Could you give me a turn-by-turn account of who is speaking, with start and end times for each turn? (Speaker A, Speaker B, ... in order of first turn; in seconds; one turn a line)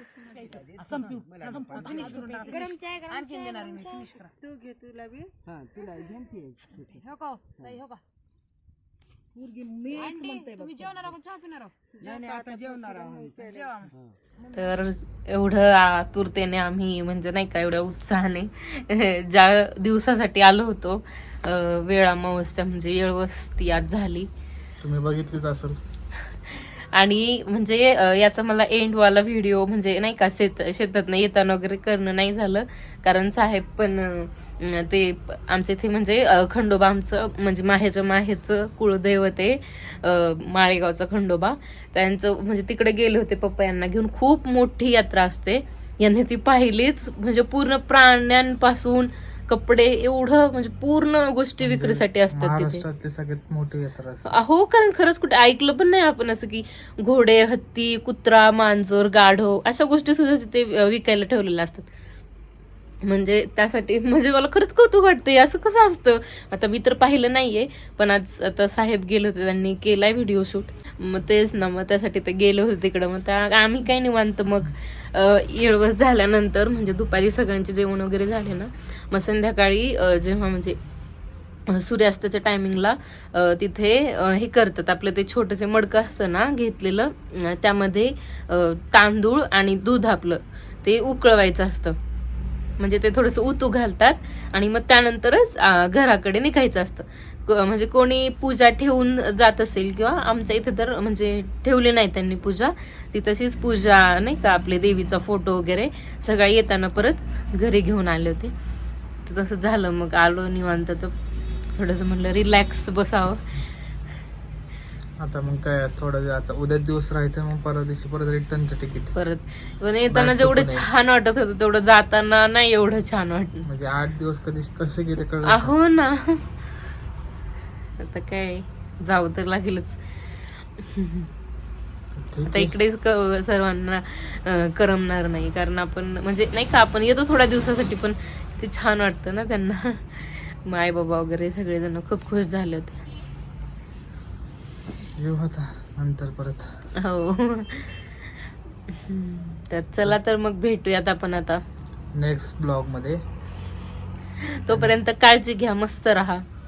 Speaker A: 0.3-2.7
Speaker B: 1.7-2.3
Speaker B: 3.4-4.2
Speaker A: 4.4-7.0
Speaker B: 9.9-11.1
Speaker A: 12.0-13.8
Speaker B: 12.3-13.2
Speaker C: 14.5-24.3
Speaker D: 24.8-25.8
Speaker C: 26.3-52.8
Speaker D: 51.6-54.4
Speaker C: 54.3-61.9
Speaker C: 63.0-80.8
Speaker C: 81.7-92.0
Speaker C: 92.8-108.5
Speaker C: 109.2-111.1
Speaker C: 111.8-113.4
Speaker D: 115.2-119.1
Speaker C: 119.1-123.7
Speaker D: 120.1-120.9
Speaker D: 123.6-125.8
Speaker C: 125.5-126.5
Speaker C: 128.0-130.0
Speaker C: 130.6-131.3
Speaker D: 132.2-132.7
Speaker C: 132.5-143.0
Speaker D: 145.2-146.8
Speaker C: 147.0-148.2
Speaker C: 148.9-151.6
Speaker D: 152.1-153.2
Speaker C: 154.6-156.4
Speaker D: 154.7-154.9